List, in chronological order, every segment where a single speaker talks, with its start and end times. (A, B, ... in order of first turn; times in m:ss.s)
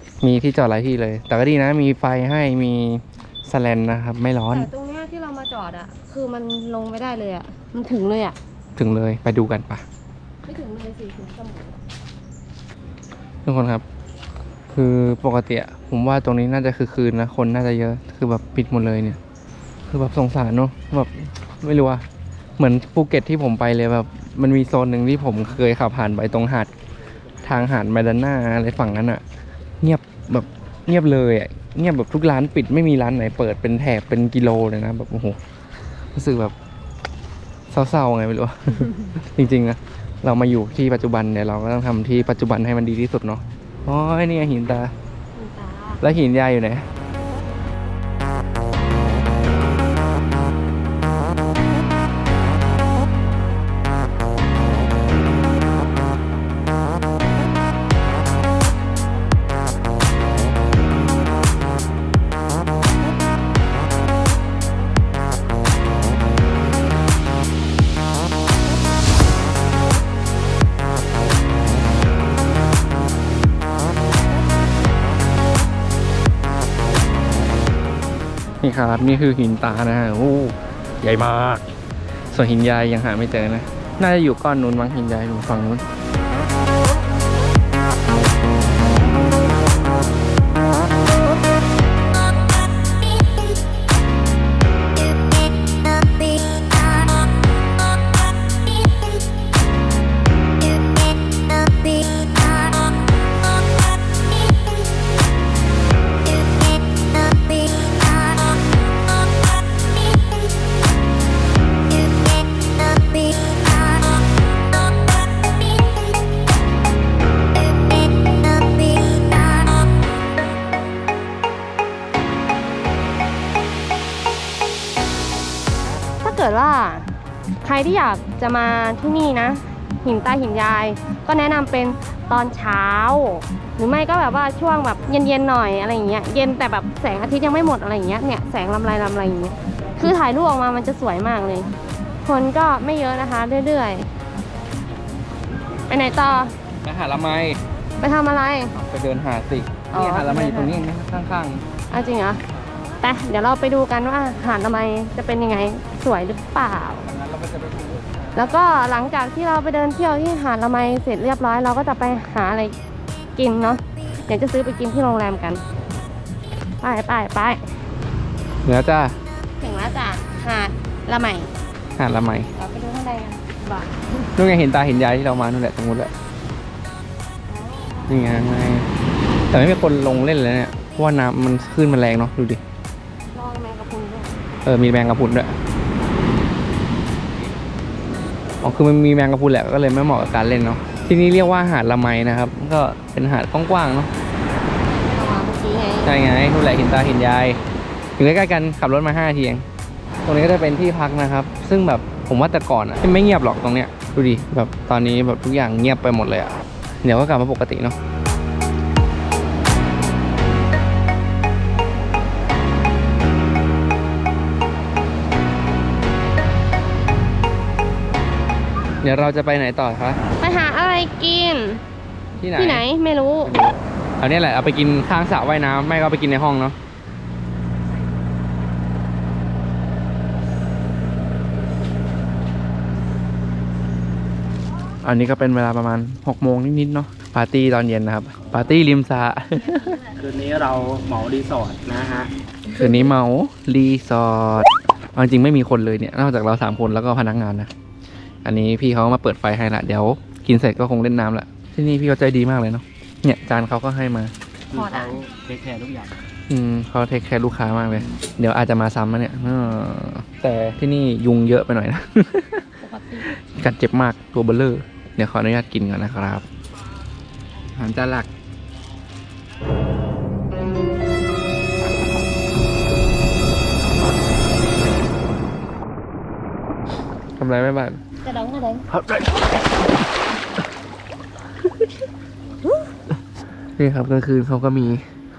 0:00.2-0:04.7 A
0:04.5-0:08.4 B
0:08.8-0:09.8 A
0:10.4-0:11.8 B
0:13.4-0:13.8 A
0:14.7-0:19.2 A
0:19.9-0:22.1 A
0:22.6-0:26.7 A
0:27.4-0:29.2 A
0:29.8-0:35.4 A
0:36.2-0:36.5 A
0:37.7-0:44.9 A
0:45.4-0:46.0 B
0:46.0-0:46.9 A
1:18.6-1:21.7 A
1:22.3-1:25.8 A
2:06.2-2:07.1 B
2:07.6-2:21.7 B
2:22.2-2:24.1 B
2:25.9-2:26.5 B
2:26.8-2:27.6 A
2:28.0-2:28.8 B
2:28.8-2:31.6 A
2:29.9-2:30.8 B
2:31.9-2:32.4 B
2:33.0-2:37.1 B
2:37.2-2:38.1 C
2:38.3-2:42.8 B
2:43.4-2:45.6 B
2:46.8-2:47.7 B
2:48.6-2:49.2 A
2:49.6-2:51.5 B
2:52.0-2:52.5 A
2:52.6-2:54.0 B
2:54.4-2:56.1 A
2:57.5-2:58.2 B
2:58.1-2:58.9 A
2:59.5-3:02.6 A
3:03.3-3:04.4 B
3:04.6-3:05.6 A
3:08.6-3:14.1 A
3:15.1-3:16.2 B
3:16.0-3:17.6 A
3:18.2-3:19.7 A
3:20.2-3:28.0 A
3:39.0-3:40.2 A
3:40.4-3:41.8 B
3:42.4-3:42.8 A
3:42.6-3:43.6 B
3:43.4-3:46.8 A
3:55.0-4:00.1 A
4:00.2-4:02.3 C
4:02.8-4:07.7 A
4:08.4-4:14.3 A
4:14.7-4:16.2 C
4:14.7-4:15.3 B
4:16.5-4:22.7 A
4:22.8-4:23.3 B
4:23.2-4:26.4 A
4:27.8-4:28.3 A
4:37.4-4:38.0 A
4:38.2-4:38.9 B
4:38.9-4:39.5 A
4:43.8-4:45.1 A